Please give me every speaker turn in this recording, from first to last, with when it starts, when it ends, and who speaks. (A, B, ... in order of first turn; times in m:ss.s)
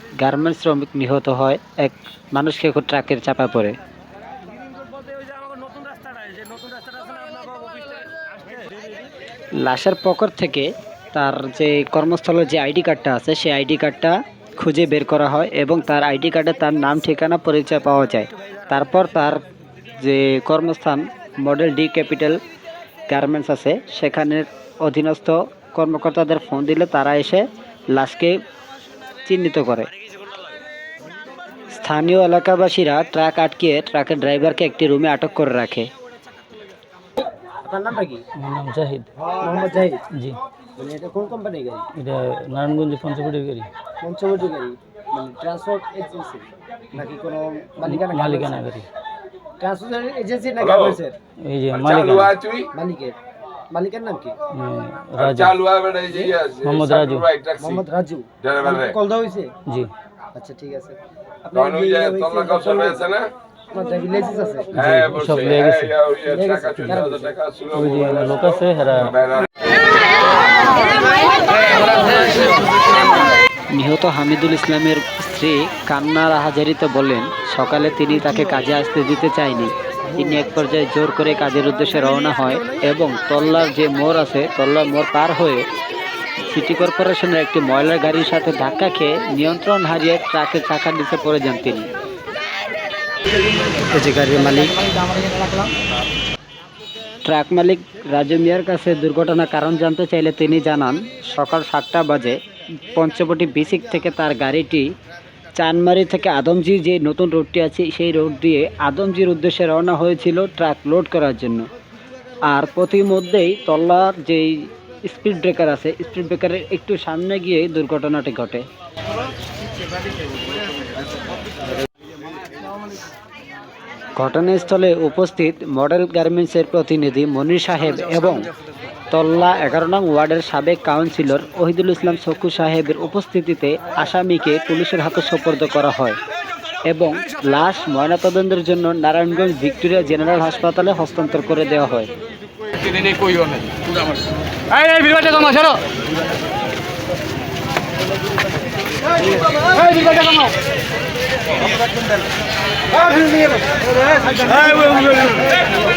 0:00.2-0:03.7 A
0:09.6-0:19.4 A
0:20.0-0:22.4 A
0:23.1-0:28.4 A
0:29.2-0:29.9 A
0:31.7-0:35.9 A
0:37.5-0:38.2 B
0:38.3-0:39.1 C
0:39.3-0:40.0 B
0:40.1-0:40.4 C
0:40.8-0:41.9 B
0:41.9-0:43.7 C
0:44.0-0:48.6 B
0:47.8-0:48.9 C
0:49.6-0:51.1 B
0:51.4-0:52.4 C
0:52.6-0:53.2 B
0:53.7-0:54.4 B
0:54.5-0:55.7 C
0:56.6-0:57.4 C
0:57.6-0:59.5 B
0:59.7-0:59.9 C
1:00.3-1:04.8 B
1:04.7-1:06.1 C
1:06.2-1:07.4 B
1:07.7-1:09.2 C
1:13.7-1:25.7 A
1:26.5-1:31.9 A
1:33.8-1:35.2 A
1:37.2-1:42.4 A
1:43.0-1:44.9 A
1:45.6-1:51.7 A
1:52.5-1:58.6 A
2:04.2-2:08.5 A
2:09.1-2:16.2 A
2:16.9-2:22.1 A
2:25.0-2:25.4 A
2:29.7-2:30.5 B
2:33.0-2:33.6 B
2:34.2-2:35.4 B